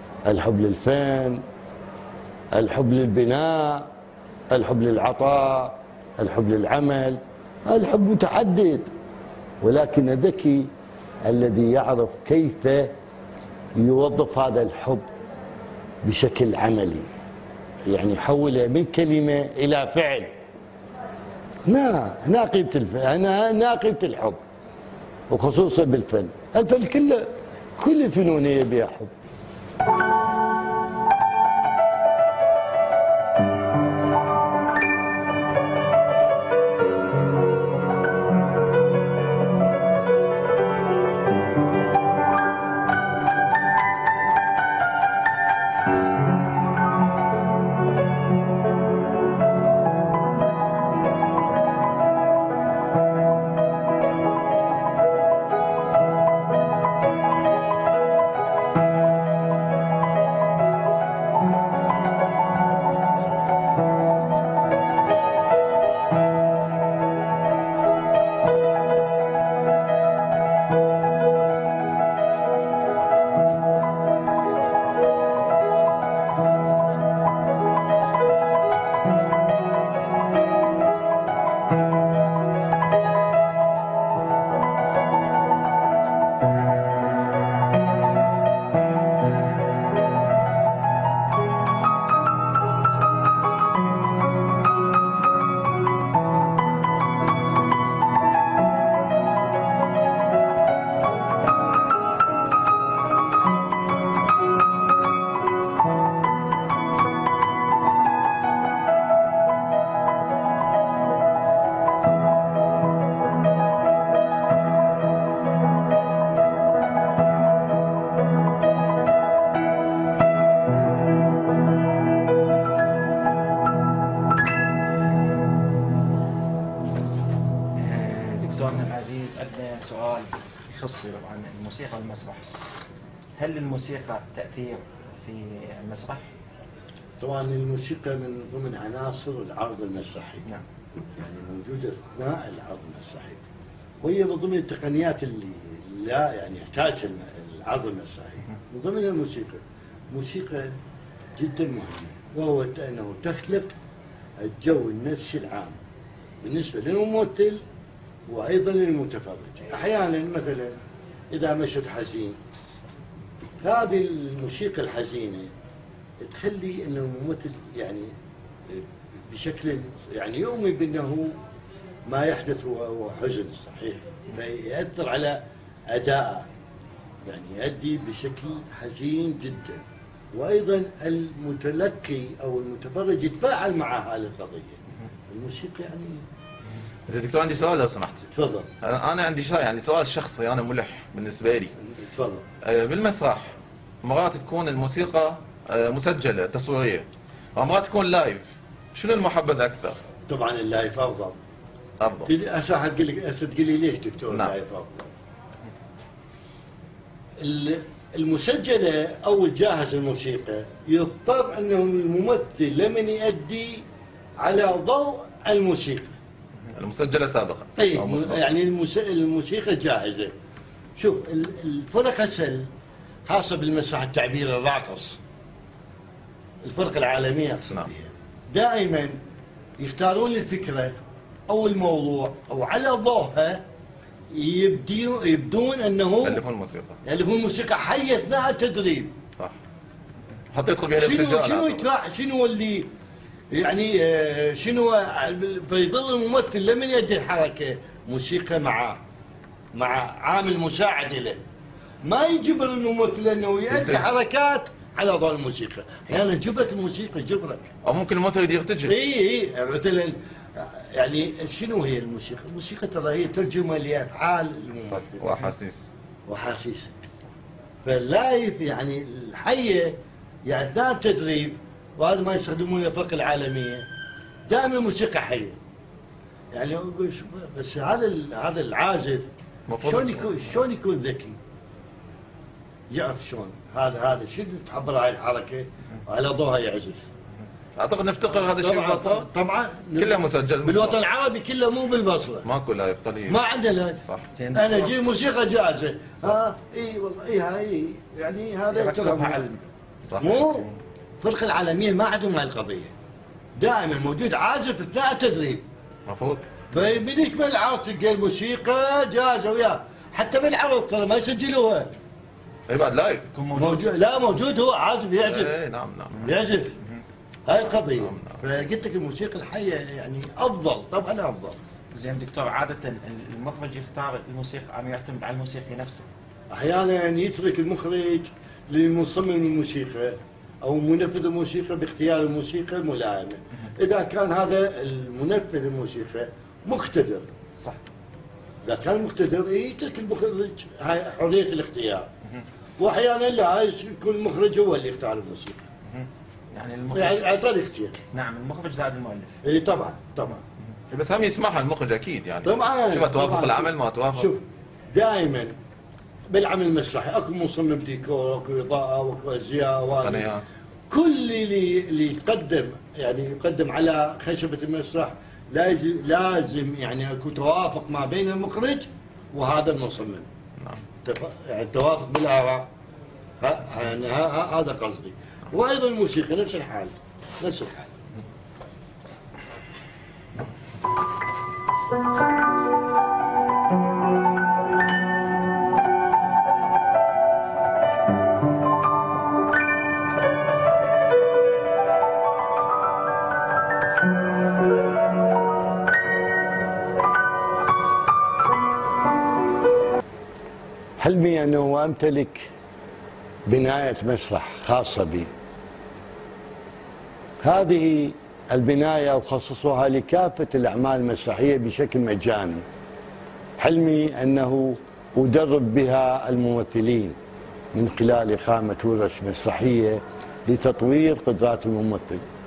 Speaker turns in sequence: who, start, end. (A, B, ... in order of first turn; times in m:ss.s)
0:00.3-0:01.4 A
0:02.5-0:03.9 A
0:04.5-0:08.9 A
0:09.6-0:10.7 A
0:11.3-0:12.9 A
0:13.8-0:15.1 A
0:16.0-0:17.1 A
0:17.9-0:20.3 A
0:21.7-0:24.4 A
0:25.3-0:29.1 A
2:07.8-2:12.4 B
2:13.4-2:16.3 B
2:17.2-2:20.5 A
2:21.2-2:23.4 A
2:24.0-2:30.8 A
2:31.4-2:33.8 A
2:34.4-2:35.8 A
2:36.4-2:37.6 A
2:38.3-2:40.8 A
2:41.3-2:42.4 A
2:43.6-2:45.5 A
2:46.2-2:48.1 A
2:48.7-2:51.4 A
2:52.1-2:56.5 A
2:57.3-3:06.2 A
3:07.1-3:08.3 C
3:08.3-3:08.7 A
3:08.8-3:11.8 C
3:11.9-3:12.4 A
3:12.6-3:20.0 C
3:20.3-3:21.4 A
3:22.0-3:22.3 C
3:22.3-3:25.1 A
3:27.4-3:33.9 A
3:34.4-3:36.1 A
3:36.7-3:38.4 C
3:37.8-3:40.3 A
3:41.0-3:42.7 A
3:43.3-3:45.2 A
3:46.6-3:49.2 A
3:49.8-3:51.0 A
3:51.5-3:53.6 A
3:54.3-3:56.4 A
3:56.2-3:57.0 C
3:57.0-3:59.2 A
4:00.5-4:01.8 C
4:01.0-4:02.9 A
4:03.5-4:09.0 A
4:09.8-4:11.4 A
4:12.0-4:17.7 A
4:13.7-4:14.0 C
4:17.8-4:19.0 C
4:18.9-4:25.4 A
4:25.2-4:25.9 C
4:26.3-4:26.9 A
4:27.8-4:33.9 A
4:34.5-4:35.6 A
4:36.5-4:39.3 A
4:39.7-4:40.3 C
4:39.8-4:41.4 A
4:42.9-4:47.1 A
4:47.8-4:49.3 C
4:48.3-4:52.5 A
4:50.0-4:51.0 C
4:52.4-4:53.4 C
4:53.3-4:54.0 A
4:54.0-4:54.3 C
4:54.3-4:55.0 B
4:54.5-4:59.5 A
4:58.7-5:00.8 B
5:00.1-5:00.4 C
5:00.2-5:00.7 A
5:01.2-5:02.9 A
5:03.6-5:05.6 A
5:06.1-5:06.5 C
5:06.7-5:11.9 A
5:12.7-5:13.3 C
5:13.3-5:13.9 B
5:13.5-5:15.6 A
5:15.3-5:16.3 C
5:16.2-5:16.8 A
5:17.5-5:21.6 A
5:18.0-5:18.3 C
5:21.9-5:26.1 B
5:26.5-5:37.3 A
5:38.6-5:42.1 A
5:42.8-5:45.6 A
5:45.9-5:47.3 B
5:46.9-5:48.0 A
5:48.1-5:49.4 B
5:49.4-5:50.4 A
5:50.9-5:54.3 C
5:52.4-5:55.5 A
5:56.3-6:00.3 A
6:00.0-6:00.5 C
6:00.9-6:10.3 A
6:11.0-6:12.7 A
6:13.4-6:17.9 A
6:41.0-6:42.5 A
6:43.5-6:45.3 A
6:47.4-6:52.7 A
6:53.6-6:57.2 A
6:57.7-7:02.2 A